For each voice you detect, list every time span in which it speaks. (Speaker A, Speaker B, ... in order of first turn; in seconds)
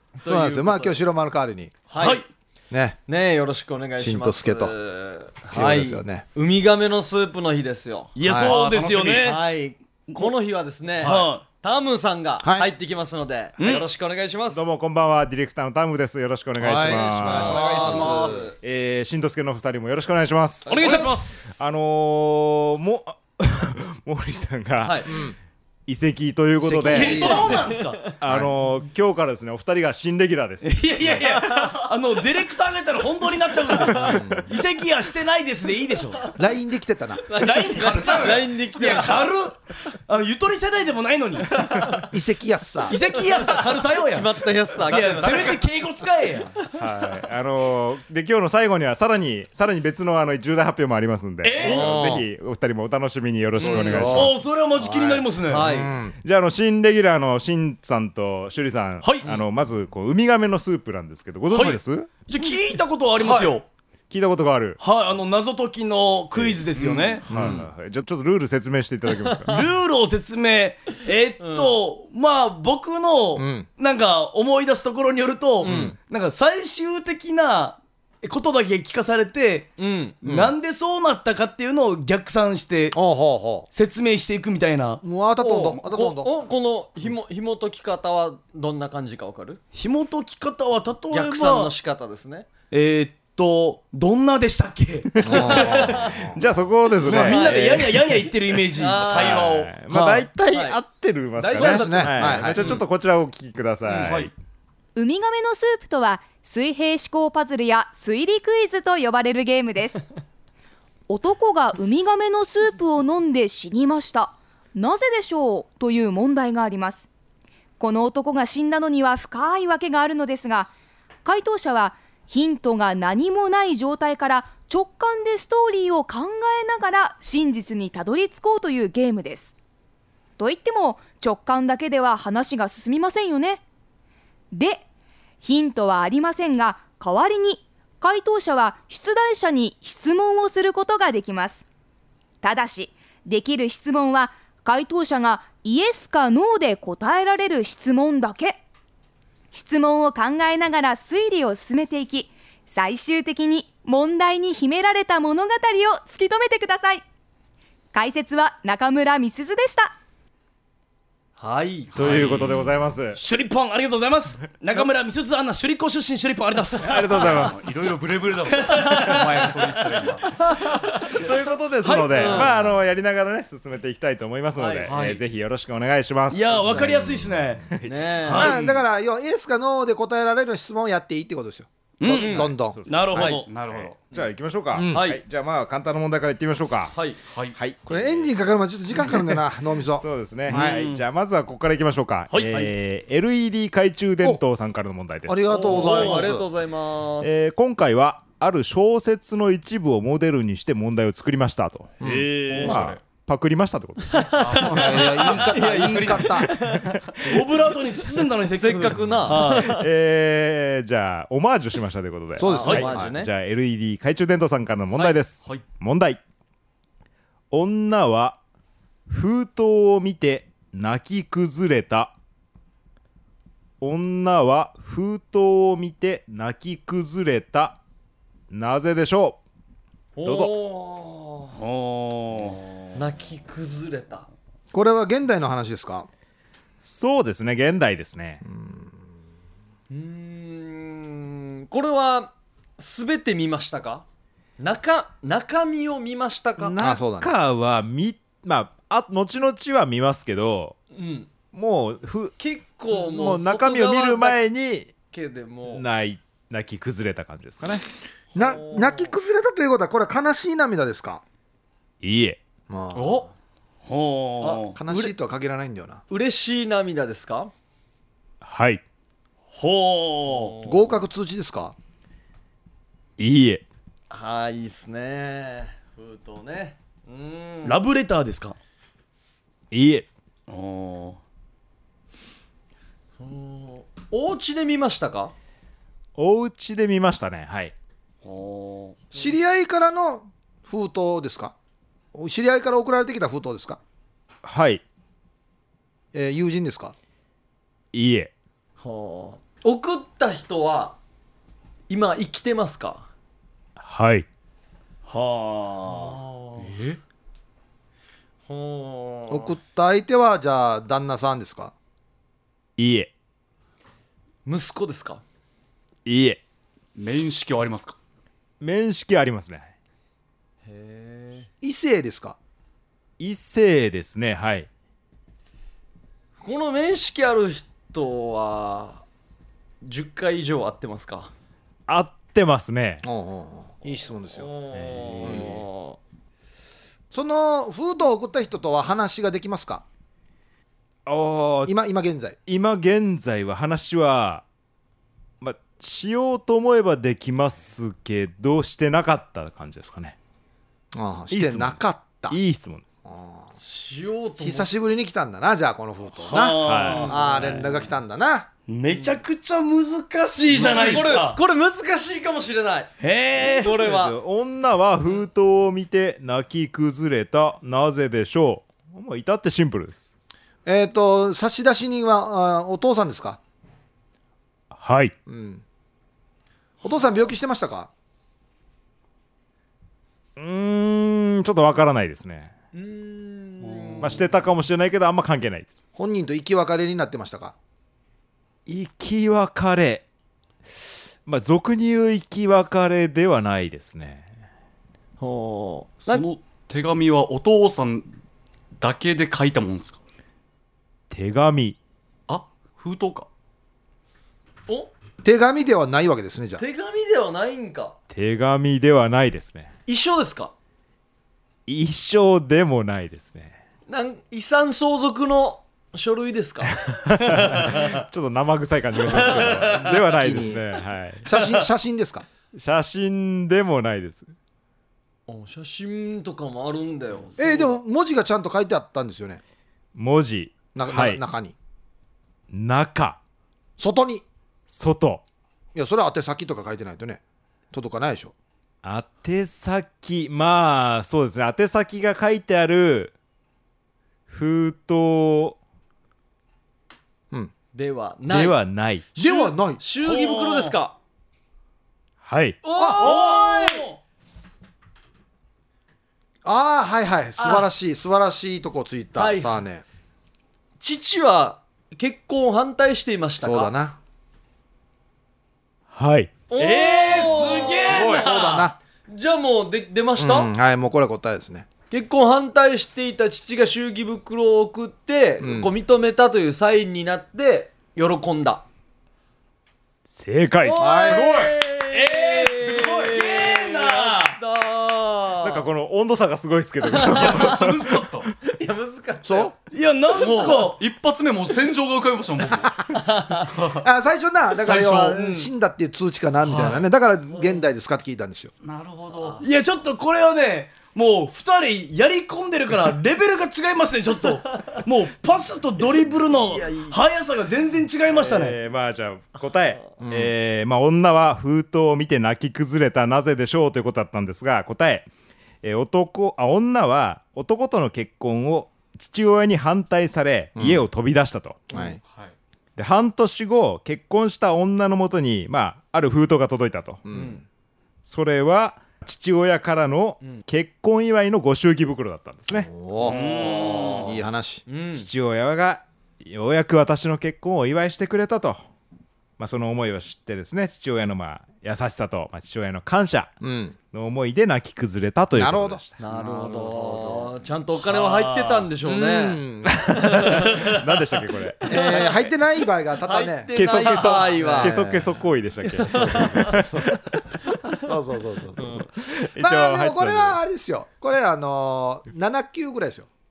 Speaker A: 0.2-1.0, 1.9-2.2, 3.1-8.2, 9.2-14.7, 16.7-18.6, 20.7-21.4, 24.8-25.1, 27.0-28.1, 31.6-31.8, 37.3-39.3, 41.5-42.0, 43.4-45.6, 51.8-52.2, 53.6-54.2, 55.5-56.0, 63.2-63.5, 66.8-67.6, 69.2-69.6, 71.4-71.8, 75.6-75.9, 79.8-80.2, 85.4-89.6, 91.1-92.5, 95.5-96.1, 97.0-97.8, 98.8-99.5, 100.5-100.8, 101.4-102.6, 161.4-162.3, 172.1-172.5, 174.6-175.2, 177.8-178.5, 182.1-182.5, 183.2-183.4, 184.9-185.2, 186.9-187.2, 195.5-197.3, 204.2-204.4, 208.5-209.8, 212.4-213.3, 230.2-231.6, 232.9-234.3, 239.9-244.1, 244.6-246.8, 250.9-251.3, 252.4-254.4, 255.1-255.8, 258.3-259.1, 264.4-265.1, 266.1-267.5, 270.3-271.0, 274.1-277.8, 283.2-285.3, 298.8-301.0, 301.9-303.1, 305.9-306.8, 308.5-309.5, 314.4-315.2, 320.6-321.5, 326.4-329.0, 329.8-331.3, 334.4-336.0, 353.6-354.7, 356.9-357.9, 358.9-359.2, 360.5-364.2, 382.7-384.3, 395.2-396.3, 406.6-408.0, 409.9-410.5, 413.9-416.8, 425.3-427.8, 447.7-448.6, 449.1-451.0, 452.6-453.9, 457.4-457.7, 459.2-459.6, 460.8-463.7, 466.5-468.3, 469.1-470.5, 471.9-478.7, 480.6-485.7, 486.9-487.6, 488.4-489.6, 490.1-490.7, 492.9-493.5, 506.3-507.0, 527.1-527.4, 533.0-535.1, 546.0-550.7, 551.7-552.2, 553.0-554.8, 555.8-556.6, 558.6-558.8
Speaker B: 0.3-1.8, 2.7-3.0, 4.0-4.8, 5.5-6.2, 8.2-8.6, 12.4-12.7, 16.6-18.5, 25.1-25.4, 26.6-28.5, 34.0-34.5, 36.4-37.3, 42.1-43.0, 51.6-52.2, 53.6-56.2, 67.3-67.7, 73.4-73.7, 75.6-76.0, 80.2-80.5, 82.9-83.7, 85.0-86.3, 95.2-96.5, 101.5-102.7, 178.4-183.3, 184.7-185.0, 187.9-190.8, 195.3-196.5, 202.0-202.9, 204.5-206.5, 212.4-213.2, 234.7-236.1, 238.4-238.9, 246.6-247.3, 258.3-261.2, 262.7-263.3, 264.8-266.0, 270.6-271.8, 289.1-291.5, 292.1-293.8, 296.1-296.9, 309.3-311.7, 321.6-322.4, 333.0-334.5, 337.1-339.9, 341.7-342.4, 350.9-352.4, 353.1-353.5, 354.4-358.5, 370.6-373.4, 375.3-375.6, 376.8-377.9, 385.9-387.6, 405.2-406.6, 419.2-420.6, 421.2-422.3, 427.4-429.4, 430.7-431.6, 433.8-434.2, 435.8-437.2, 437.7-438.3, 449.2-449.8, 452.8-453.2, 456.4-459.8, 463.4-464.0, 467.8-468.8, 470.2-471.7, 475.4-475.7, 480.8-481.3, 489.2-489.5, 493.8-498.5, 510.0-510.3, 520.6-520.8, 521.7-522.0, 527.1-527.4, 532.5-534.6, 543.4-543.8, 545.3-547.3, 548.8-550.5, 551.7-555.1, 555.9-563.1
Speaker C: 1.9-2.3, 8.2-9.4, 11.0-11.4, 13.6-13.8, 20.7-21.5, 26.9-28.0, 30.6-36.2, 37.3-41.8, 42.9-46.6, 51.4-52.0, 53.6-55.7, 59.0-59.4, 61.5-63.7, 64.8-67.2, 69.5-83.0, 83.7-85.0, 89.7-91.7, 92.7-95.7, 97.0-100.3, 103.9-104.3, 162.1-162.5, 163.2-167.6, 168.6-169.4, 170.6-171.3, 171.8-172.5, 176.3-177.7, 178.2-178.8, 182.0-183.5, 190.5-191.0, 192.3-192.7, 195.8-196.2, 202.0-202.9, 207.2-209.8, 231.6-232.6, 263.9-264.8, 269.5-270.6, 277.6-278.6, 280.5-281.2, 288.2-288.9, 305.1-306.2, 356.2-357.7, 358.7-361.4, 363.0-363.8, 417.3-417.7, 450.0-450.8, 453.0-454.0, 466.6-468.7, 481.9-484.4, 489.7-490.8, 499.4-508.6, 533.0-534.2, 547.8-548.7
Speaker D: 8.4-9.3, 37.8-38.5, 161.9-162.7, 166.9-170.3, 183.2-184.1, 187.3-188.1, 202.5-203.0, 204.3-206.5, 262.9-263.3, 306.6-307.0, 317.0-318.0, 334.9-335.5, 383.6-384.3, 396.1-398.1, 398.8-400.0, 402.3-403.3, 481.0-481.6, 487.0-488.3, 490.3-492.9, 493.4-493.8, 494.6-495.4, 496.4-496.9, 498.6-499.5, 522.0-522.3
Speaker E: 14.5-25.3, 25.9-27.7, 28.2-31.4, 46.8-54.4, 56.2-62.1, 64.1-64.8, 66.4-66.7, 67.2-69.6, 95.3-98.2, 99.1-104.3, 161.9-163.2, 166.8-167.7, 171.2-177.9, 182.7-183.2, 183.8-186.9, 187.5-187.9, 190.0-196.2, 197.2-202.0, 202.6-204.7, 205.6-206.2, 209.5-216.2, 217.5-218.4, 219.1-222.1, 223.8-227.8, 228.5-229.4, 230.2-230.5, 236.8-238.4, 246.7-250.8, 251.5-252.4, 252.9-254.9, 255.7-257.8, 262.0-262.4, 268.4-268.8, 273.2-273.6, 279.7-280.1, 286.2-287.7, 294.4-294.8, 297.9-298.3, 303.8-304.3, 312.8-313.1, 316.1-316.4, 318.6-319.7, 323.2-324.7, 331.9-333.1, 341.1-341.7, 342.5-344.4, 345.4-350.2, 351.3-352.9, 356.6-357.2, 363.6-370.1, 374.7-375.1, 380.4-382.5, 384.0-385.8, 388.7-390.1, 391.2-394.3, 401.1-401.8, 408.1-409.7, 411.7-413.5, 416.9-421.3, 422.5-424.3, 429.9-431.2, 432.5-433.2, 434.7-435.2, 438.8-443.1, 444.3-445.6, 448.3-449.1, 452.2-452.6, 465.9-466.3, 480.1-481.0, 485.4-487.8, 508.1-515.1, 515.6-521.7, 522.8-527.0, 528.0-532.7, 534.9-538.6, 539.4-543.3, 543.9-546.0, 549.7-552.3, 553.5-556.9, 559.0-560.4
Speaker F: 105.0-110.0, 111.1-117.1, 117.8-120.7, 121.2-129.5, 130.4-133.6, 134.5-134.8, 135.4-141.6, 142.4-148.6, 149.5-157.0, 157.9-159.9